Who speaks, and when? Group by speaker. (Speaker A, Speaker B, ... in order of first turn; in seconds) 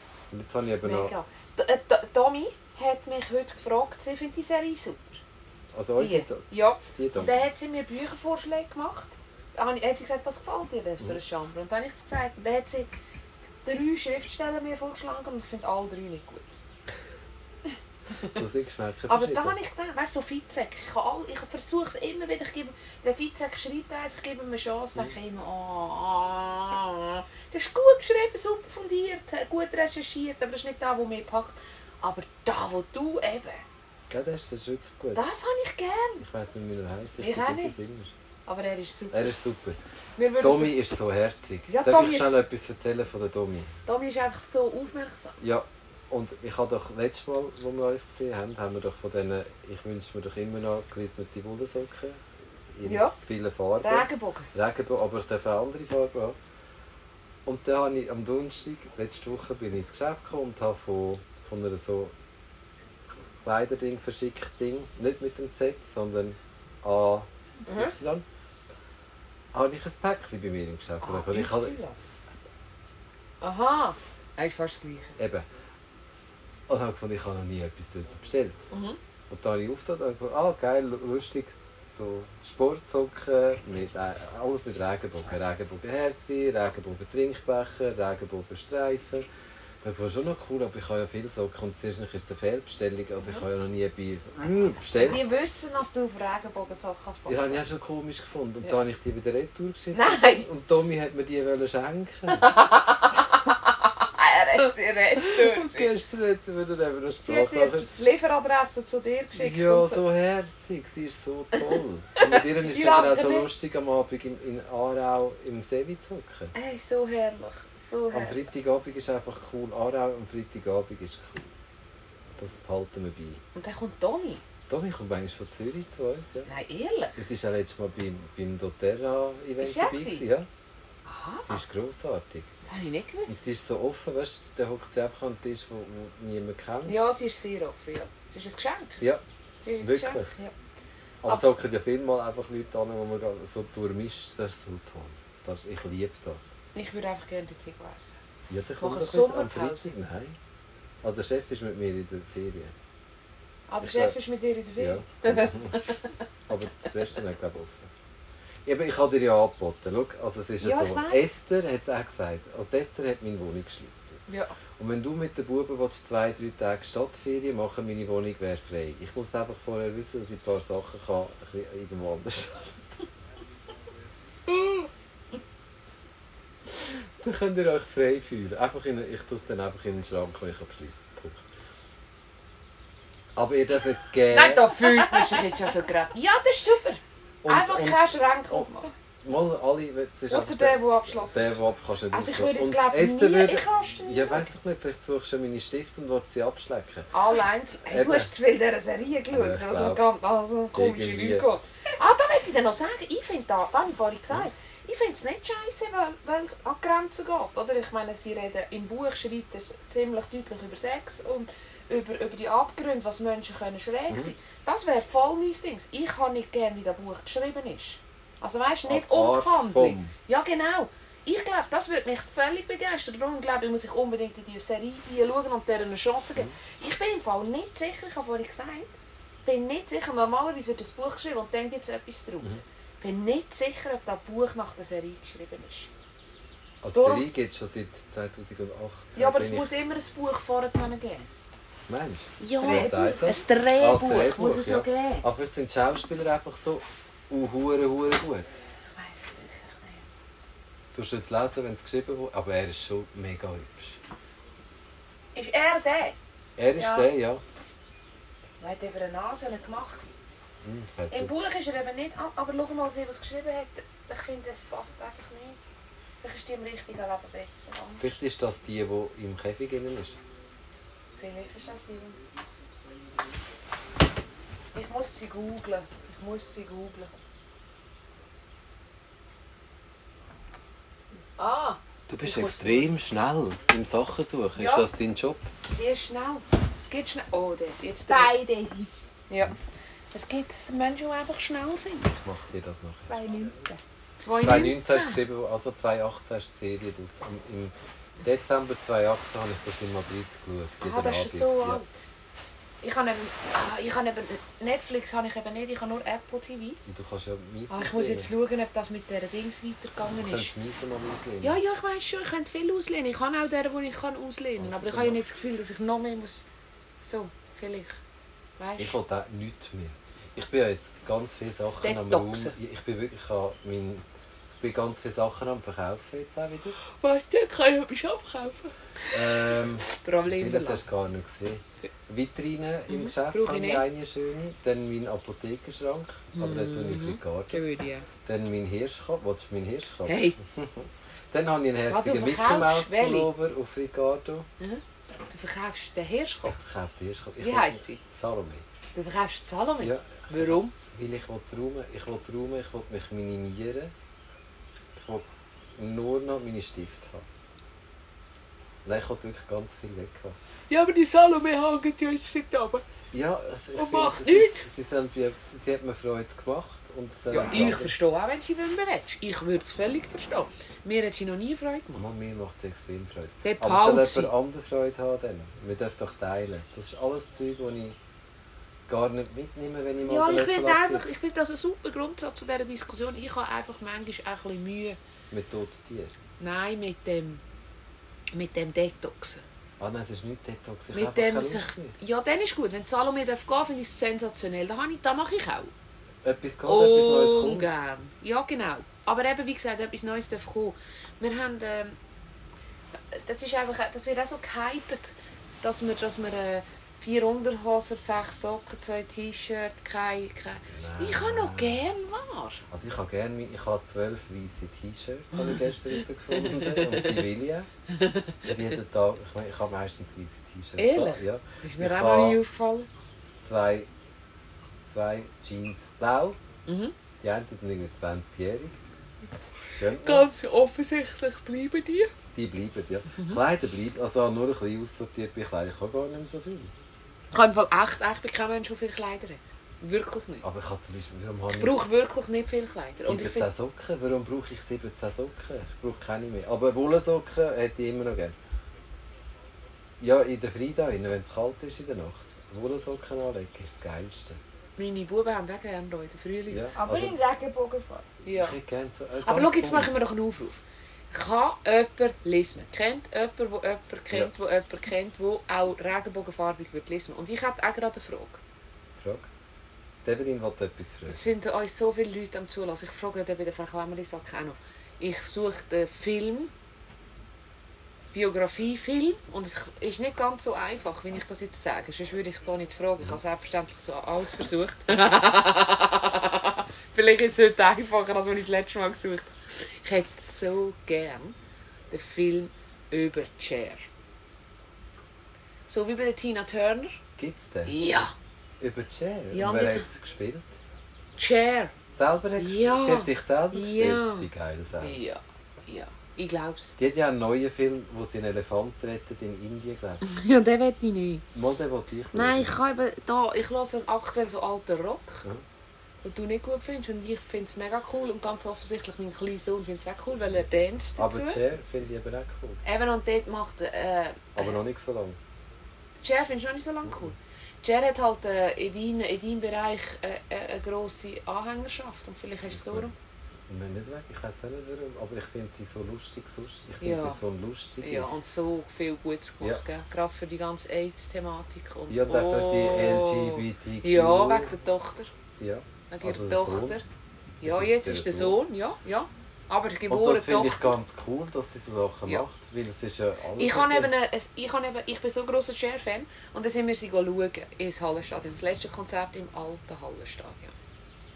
Speaker A: 0.3-1.1, 5.7-7.4, 18.2-19.6, 34.1-35.2, 36.2-38.1, 39.1-39.8, 40.4-43.7, 45.4-52.2, 52.7-56.4, 57.4-62.1, 63.4-68.2, 69.5-71.8, 75.2-75.5, 76.7-78.7, 79.3-89.3, 89.8-95.2, 97.3-102.5, 105.3-107.9, 109.3-116.5, 118.1-121.5, 122.4-123.4, 124.7-126.5, 127.2-130.5, 131.4-132.5, 133.3-137.1, 139.8-140.3, 141.2-146.5, 148.5-150.4, 151.0-152.7, 153.8-154.2, 154.8-155.9, 156.5-157.9, 158.7-164.2, 164.8-172.8, 176.7-181.4, 183.3-185.4, 187.4-188.7, 189.2-197.1, 197.9-198.3, 199.3-200.0, 200.7-201.5, 218.9-220.1, 236.8-239.7, 241.9-248.6, 250.9-254.0, 256.6-257.4, 260.6-261.3, 268.0-270.2, 282.1-285.5, 292.2-293.1, 294.4-301.8, 306.9-308.3, 310.2-311.6, 314.6-315.2, 318.8-324.0, 324.6-326.8, 329.1-337.6, 338.2-344.5, 346.4-348.6, 349.8-353.9, 355.0-357.3, 358.8-360.4, 363.1-367.9, 371.9-378.0, 378.9-381.0, 385.3-386.1, 389.8-391.9, 396.2-397.7, 410.7-411.8, 412.7-417.7, 418.4-422.4, 423.4-423.9, 424.9-426.4, 427.2-428.8, 429.8-430.3, 432.3-436.7, 440.4-441.8, 443.0-448.4, 450.0-454.4, 456.5-457.2, 458.3-459.9, 469.0-469.3, 470.0-471.2, 497.2-497.8, 498.6-500.6, 501.9-505.0, 506.8-510.0, 511.3-512.5, 521.0-522.6, 524.3-525.2, 532.5-532.9, 533.5-538.1, 541.9-544.5, 545.4-546.8, 547.4-548.4, 549.9-553.9
Speaker B: 0.8-5.2, 6.0-12.9, 13.6-16.5, 18.1-18.4, 19.1-33.6, 35.1-36.2, 37.2-37.8, 38.5-39.3, 40.2-40.7, 41.7-42.4, 43.9-45.4, 52.8-53.1, 53.8-54.5, 67.7-67.9, 71.0-72.0, 73.4-75.2, 78.7-79.0, 94.9-97.6, 99.9-100.5, 102.3-105.9, 107.2-110.0, 112.2-113.5, 116.5-118.5, 123.5-124.4, 126.5-127.2, 129.6-130.2, 131.1-131.6, 132.6-133.4, 136.8-139.0, 139.6-140.5, 146.7-148.2, 148.8-149.9, 153.7-156.1, 160.6-161.3, 164.3-164.5, 184.3-188.9, 190.3-191.5, 192.1-194.5, 197.1-228.9, 229.4-235.9, 236.9-237.3, 239.1-241.3, 242.4-245.2, 248.8-250.1, 255.3-256.1, 256.8-257.1, 258.6-260.1, 261.1-265.6, 266.2-268.2, 271.1-272.2, 274.7-277.1, 281.4-282.9, 284.6-284.9, 285.7-288.4, 289.3-289.6, 290.1-292.2, 294.2-295.2, 300.8-301.9, 302.8-306.8, 307.7-310.5, 311.4-316.4, 317.0-318.0, 318.6-319.0, 321.8-322.6, 326.8-330.8, 332.9-333.8, 336.3-338.1, 340.1-340.4, 341.9-343.3, 344.6-346.6, 347.4-348.0, 348.9-350.7, 360.7-362.8, 363.8-364.6, 367.3-372.1, 373.4-374.3, 380.1-385.0, 386.4-387.4, 388.3-389.4, 390.9-395.7, 396.6-401.9, 403.1-412.6, 416.3-417.2, 418.0-418.3, 420.8-422.9, 426.7-426.9, 430.0-432.1, 433.1-433.4, 437.3-440.4, 441.5-443.5, 454.8-456.8, 458.2-458.6, 459.2-468.4, 471.1-476.5, 478.1-491.3, 491.9-493.9, 495.7-497.0, 497.6-498.1, 499.3-499.9, 501.2-501.7, 502.4-504.3, 504.8-506.8, 510.0-511.2, 512.1-515.2, 516.0-521.4, 522.6-524.5, 526.0-532.9, 536.8-537.2, 537.8-545.1, 545.9-546.8, 547.4-550.7, 553.4-560.5
Speaker C: 288.1-288.9, 293.1-293.8, 456.8-458.1